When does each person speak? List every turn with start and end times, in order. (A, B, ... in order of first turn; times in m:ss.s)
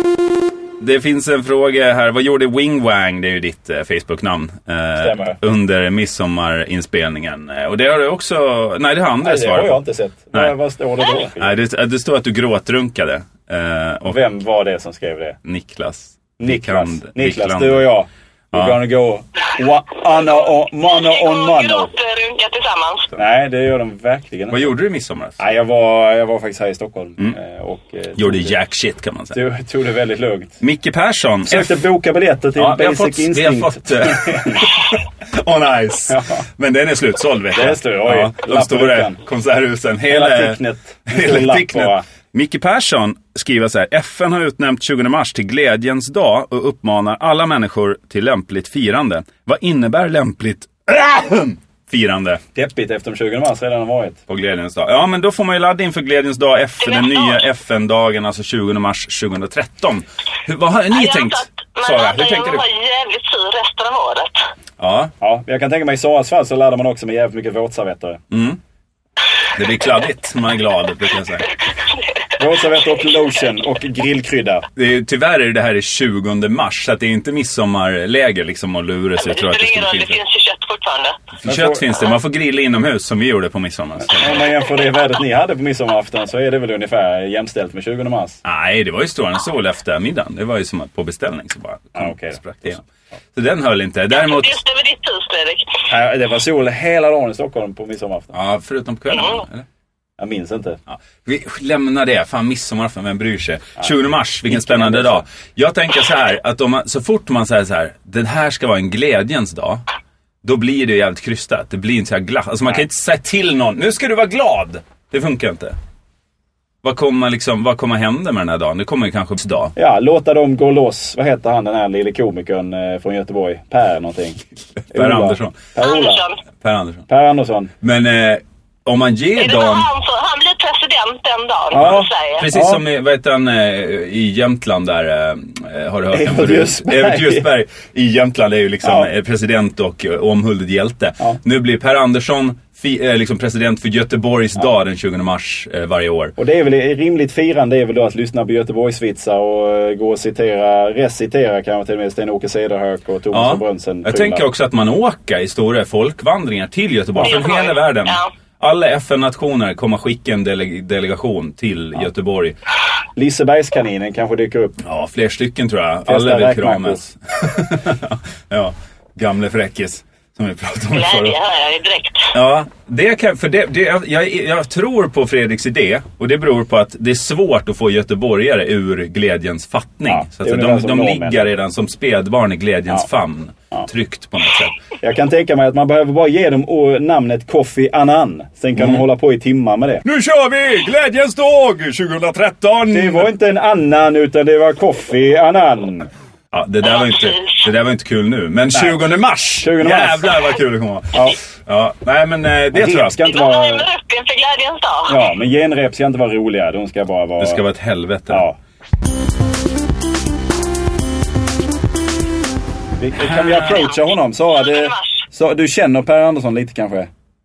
0:00.8-0:09.8 A
0:05.0-0:05.4 B
0:09.2-0:11.5 B
0:11.4-0:14.2 A
0:14.1-0:15.4 B
0:15.4-0:17.9 A
0:16.4-0:21.9 B
0:18.5-0:18.8 A
0:20.9-0:23.1 C
0:23.2-0:24.7 B
0:24.5-0:25.4 A
0:25.4-0:28.6 B
0:28.2-0:29.4 A
0:29.3-0:30.6 B
0:30.6-0:31.8 A
0:31.5-0:34.7 B
0:32.6-0:52.4 A
0:36.1-0:36.4 B
0:37.5-0:39.2 B
0:40.1-0:42.0 B
0:52.6-0:54.2 B
0:54.3-1:02.6 A
0:56.8-0:57.4 C
1:00.9-1:04.4 C
1:04.8-1:05.1 A
1:05.2-1:08.2 B
1:08.3-1:08.6 A
1:09.5-1:11.5 A
1:11.9-1:12.3 C
1:12.4-1:14.6 B
1:14.8-1:20.2 A
1:19.2-1:21.2 C
1:21.4-1:24.5 A
1:21.4-1:22.0 B
1:24.1-1:28.4 B
1:28.4-1:34.6 A
1:32.0-1:32.7 B
1:34.1-1:35.8 C
1:35.9-1:38.3 B
1:38.3-1:39.7 A
1:39.1-1:39.4 C
1:40.2-1:40.8 B
1:40.9-1:49.8 A
1:44.5-1:45.2 B
1:50.4-1:55.8 A
1:56.8-1:59.8 A
1:59.8-2:04.4 B
2:04.8-2:05.6 A
2:04.9-2:06.2 B
2:05.8-2:06.4 C
2:06.6-2:07.1 A
2:07.1-2:07.7 B
2:07.8-2:09.9 A
2:09.4-2:12.5 C
2:11.7-2:12.8 B
2:11.8-2:26.4 A
2:16.1-2:17.5 B
2:18.8-2:19.1 B
2:26.4-2:34.4 B
2:33.3-2:42.6 A
2:37.2-2:38.3 C
2:43.2-2:44.8 B
2:44.8-2:51.4 A
2:46.1-2:47.0 B
2:50.9-2:52.3 C
2:52.3-3:04.8 A
3:00.1-3:01.5 B
3:05.0-3:10.0 B
3:08.8-3:09.0 A
3:10.0-3:13.3 A
3:12.9-3:16.1 B
3:16.5-3:23.2 A
3:16.8-3:17.6 C
3:18.7-3:19.0 B
3:19.6-3:20.4 B
3:22.7-3:23.9 B
3:23.2-3:25.2 C
3:25.1-3:27.6 B
3:27.4-3:28.5 A
3:28.3-3:28.6 B
3:33.0-3:37.1 B
3:33.2-3:33.7 A
3:33.6-3:35.2 C